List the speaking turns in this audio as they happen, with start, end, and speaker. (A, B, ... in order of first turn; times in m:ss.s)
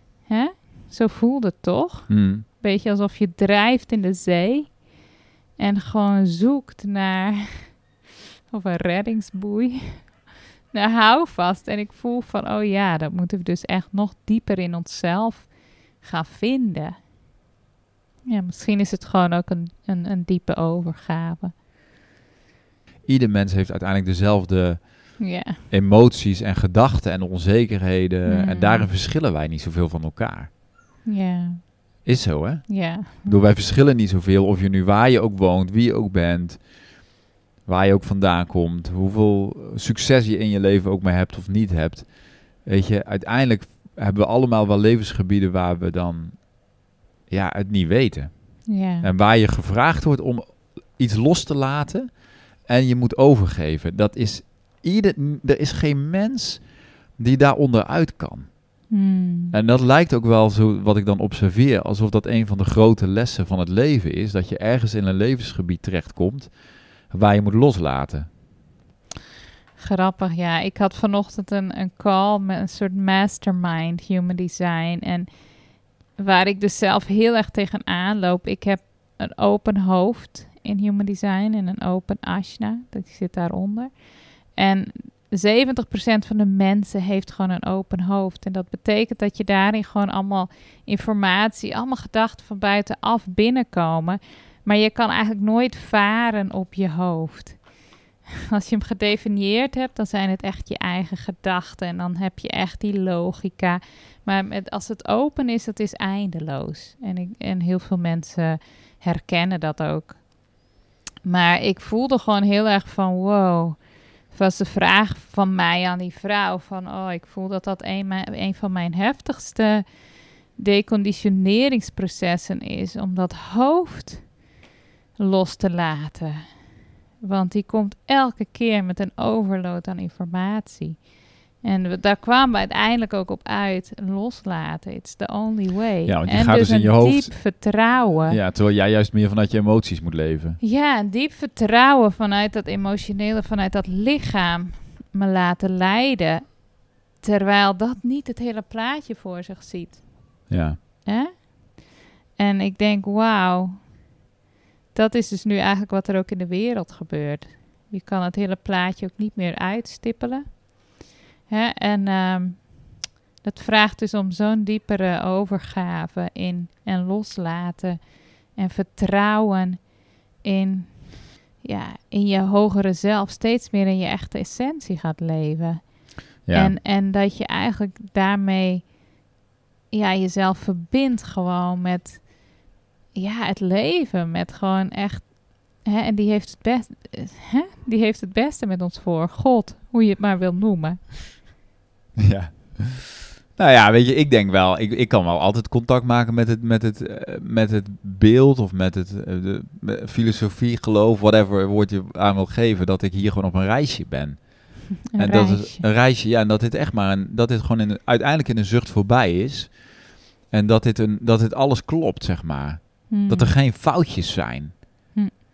0:00.3-0:04.9 A
0:02.1-0:02.4 B
0:05.6-0:07.8 A
0:08.5-0:17.0 A
0:18.3-0:21.5 A
0:23.0-0:30.5 B
0:25.2-0:25.6 A
0:28.3-0:28.9 A
0:31.0-0:31.8 A
0:32.0-0:36.9 B
0:32.7-0:33.4 A
0:37.7-0:58.9 B
0:48.7-0:49.1 A
0:58.9-0:59.6 A
0:59.5-1:08.3 B
1:09.8-1:15.5 A
1:16.1-1:37.7 A
1:38.5-1:50.2 A
1:51.2-1:59.9 A
2:00.5-2:04.4 A
2:05.2-2:18.4 A
2:16.0-2:17.7 B
2:18.3-2:20.6 B
2:20.6-2:33.9 A
2:30.5-2:30.8 B
2:34.9-2:49.9 A
2:50.4-2:59.0 A
2:56.5-2:56.8 B
2:59.9-3:02.6 A
3:03.1-3:11.1 A
3:12.2-3:35.1 B
3:25.1-3:25.8 A
3:33.1-3:33.6 A